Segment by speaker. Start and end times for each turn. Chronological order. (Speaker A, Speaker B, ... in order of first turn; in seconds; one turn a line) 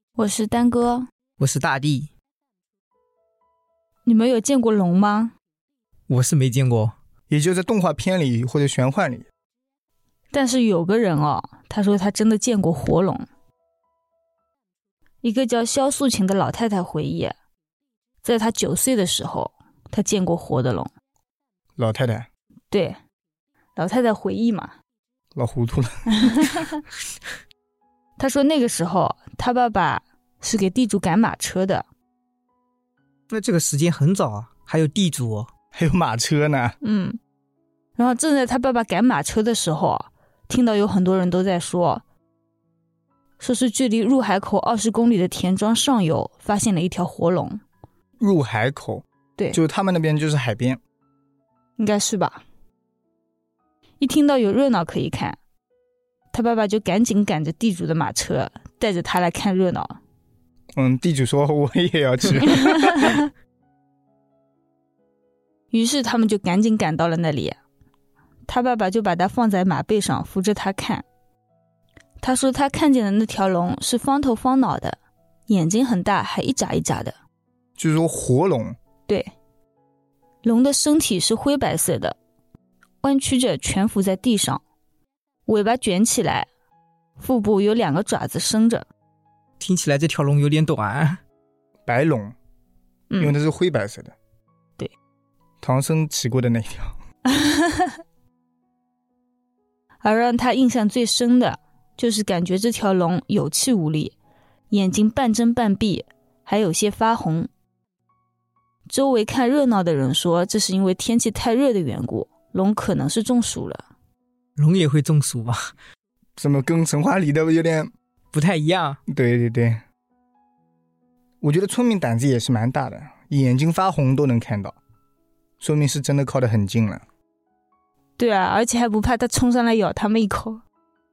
Speaker A: 0.2-1.1
Speaker B: 1.4-2.1
Speaker A: 4.0-5.3
Speaker B: 6.1-6.9
Speaker C: 7.3-9.2
Speaker A: 10.3-13.2
Speaker A: 15.2-17.3
Speaker A: 18.2-20.9
Speaker C: 21.8-22.3
Speaker A: 22.7-23.0
Speaker A: 23.8-24.7
Speaker C: 25.4-26.4
Speaker A: 26.2-26.8
Speaker A: 28.2-31.9
Speaker B: 33.3-35.5
Speaker C: 35.7-36.8
Speaker A: 36.8-37.2
Speaker A: 38.0-42.0
Speaker A: 43.4-47.6
Speaker C: 48.2-50.8
Speaker A: 51.8-52.4
Speaker A: 54.0-55.4
Speaker A: 56.3-60.0
Speaker C: 60.8-63.2
Speaker A: 62.5-63.3
Speaker A: 65.7-67.6
Speaker A: 68.5-71.0
Speaker A: 72.2-77.2
Speaker C: 77.8-78.8
Speaker A: 80.4-82.2
Speaker A: 83.0-84.6
Speaker A: 85.5-86.5
Speaker A: 87.2-88.8
Speaker B: 89.6-91.2
Speaker C: 91.9-92.3
Speaker A: 93.1-93.3
Speaker C: 93.2-94.1
Speaker C: 95.6-96.9
Speaker A: 97.3-97.9
Speaker A: 100.0-104.1
Speaker A: 104.7-107.5
Speaker A: 108.9-113.8
Speaker B: 114.6-115.7
Speaker C: 116.4-117.9
Speaker B: 118.3-119.0
Speaker C: 119.1-119.8
Speaker C: 121.4-124.8
Speaker C: 125.6-127.0
Speaker A: 128.2-130.6